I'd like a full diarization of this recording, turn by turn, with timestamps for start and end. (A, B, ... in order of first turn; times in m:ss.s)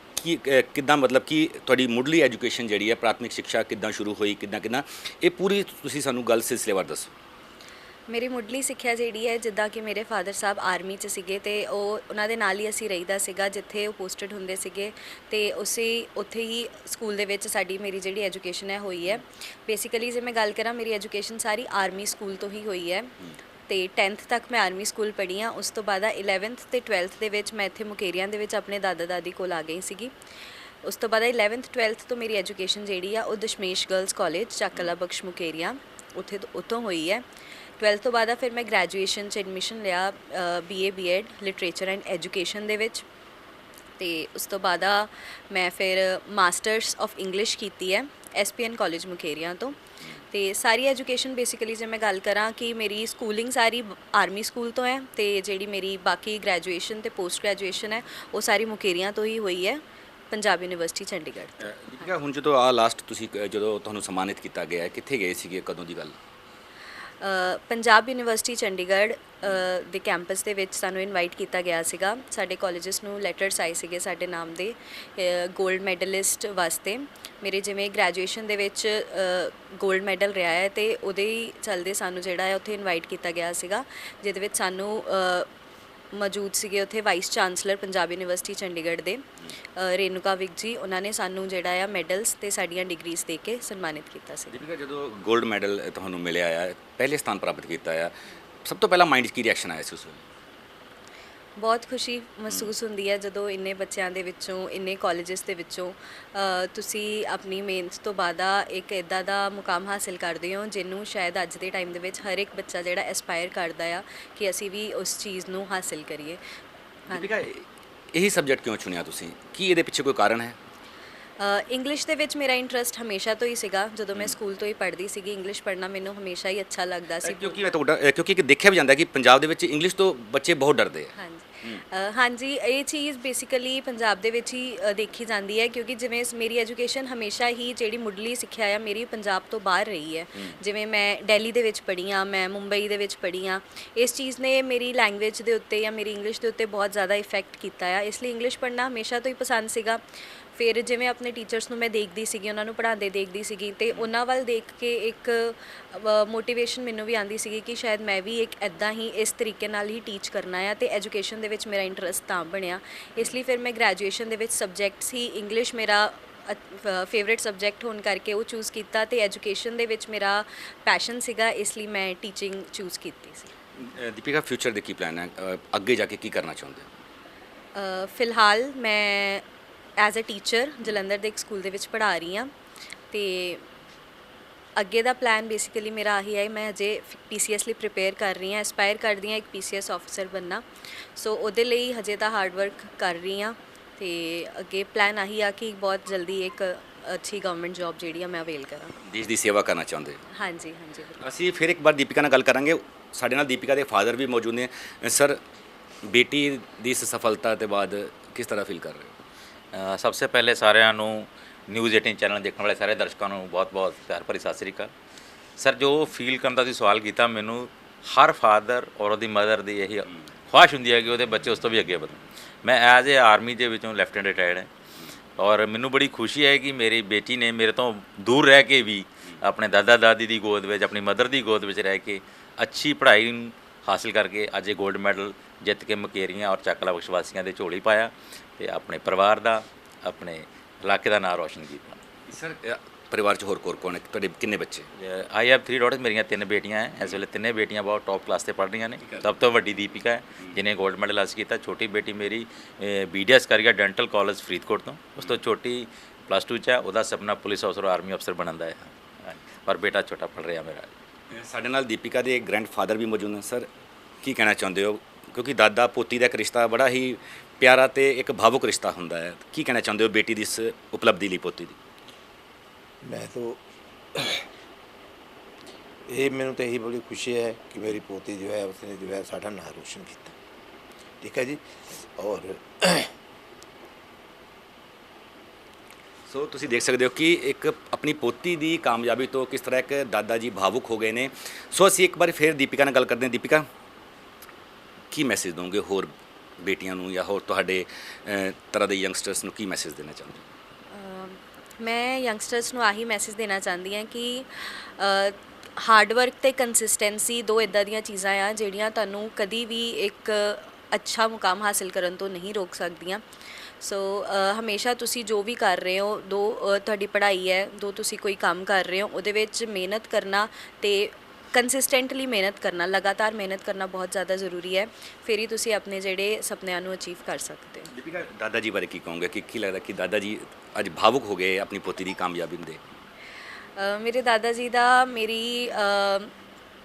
0:00.2-0:07.1 A
0:08.1-0:23.2 B
0:23.7-0:30.1 B
0:30.8-0:37.2 B
0:37.8-0:43.0 B
0:44.0-0:49.8 B
0:50.3-1:01.7 B
1:01.6-1:06.2 A
1:07.2-1:25.5 B
1:26.1-1:29.2 B
1:29.8-1:34.6 B
1:34.5-1:40.2 A
1:41.6-1:56.4 B
1:57.1-2:00.6 A
2:01.4-2:07.6 B
2:07.2-2:11.1 A
2:11.1-2:30.0 B
2:30.6-2:53.5 B
2:53.8-2:56.9 A
2:57.7-2:59.4 B
3:00.0-3:02.5 B
3:03.1-3:03.6 B
3:04.8-3:18.9 B
3:19.0-3:20.2 A
3:20.3-3:21.2 B
3:21.2-3:25.4 A
3:26.0-3:29.1 A
3:29.7-3:34.9 C
3:35.6-3:44.7 C
3:45.4-4:02.0 C
4:02.3-4:04.9 A
4:05.0-4:20.9 C
4:09.0-4:09.3 A
4:21.3-4:23.7 A
4:24.2-4:31.8 A
4:33.0-4:33.6 D
4:34.1-4:34.4 D
4:36.0-4:40.3 D
4:41.2-4:41.6 D
4:42.2-4:43.1 D
4:46.3-4:53.6 A
4:55.1-5:00.4 A
5:00.9-5:13.2 B
5:13.8-5:27.9 B
5:27.9-5:32.8 A
5:33.8-5:36.3 B